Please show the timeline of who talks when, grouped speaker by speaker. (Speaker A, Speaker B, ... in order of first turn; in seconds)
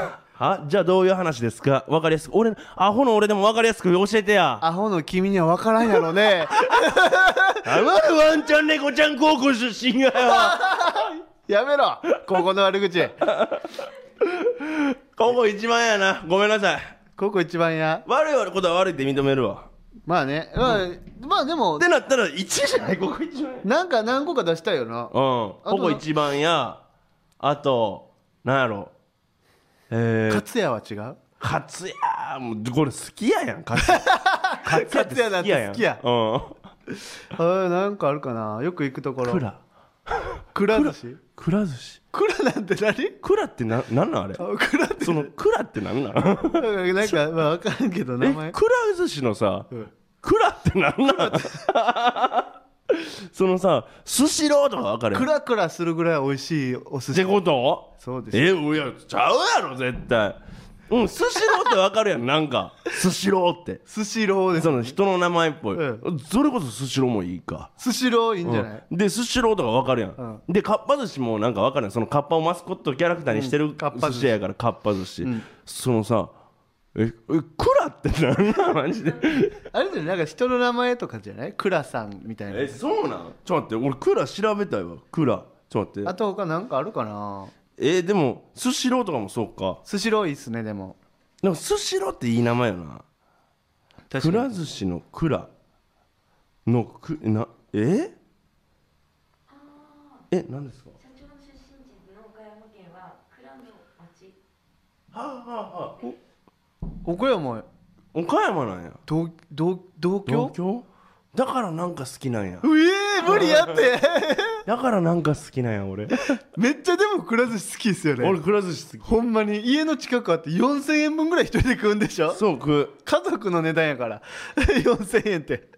Speaker A: 0.3-4.6, 7.6-10.7, 13.2-16.9, 18.1-19.7, 21.8-23.6, 25.1-26.8, 27.4-28.9, 29.9-30.4, 31.4-36.6, 39.2-42.0, 43.2-44.4, 45.0-47.2, 48.2-49.7, 50.2-55.3, 57.1-63.8, 64.5-67.7, 68.4-76.3, 76.9-79.6, 82.5-86.1, 87.8-89.8, 91.4-93.0, 94.2-95.5, 96.7-98.2, 100.3-101.0, 105.1-106.0, 108.1-109.0, 110.3-112.7, 113.2-113.9, 114.7-116.2, 118.2-119.1, 122.3-123.0
Speaker B: 4.6-7.7, 10.2-13.2, 17.2-18.1, 20.1-21.9, 23.6-25.1, 25.6-26.0, 30.3-31.2, 33.8-36.0, 37.1-39.4, 40.5-41.2, 42.1-43.2, 44.4-45.3, 46.5-48.6, 51.1-51.6, 55.1-57.4, 57.9-58.5, 63.9-65.0, 65.7-66.0, 67.8-68.8, 70.2-70.4, 73.3-74.3, 75.2-75.5, 79.7-82.8, 86.0-87.5, 89.9-91.0, 94.1-94.6, 107.0-107.7, 109.1-110.5, 112.6-114.6, 116.1-118.4, 119.0-122.4, 123.0-125.7
Speaker C: 99.5-100.3, 101.0-104.4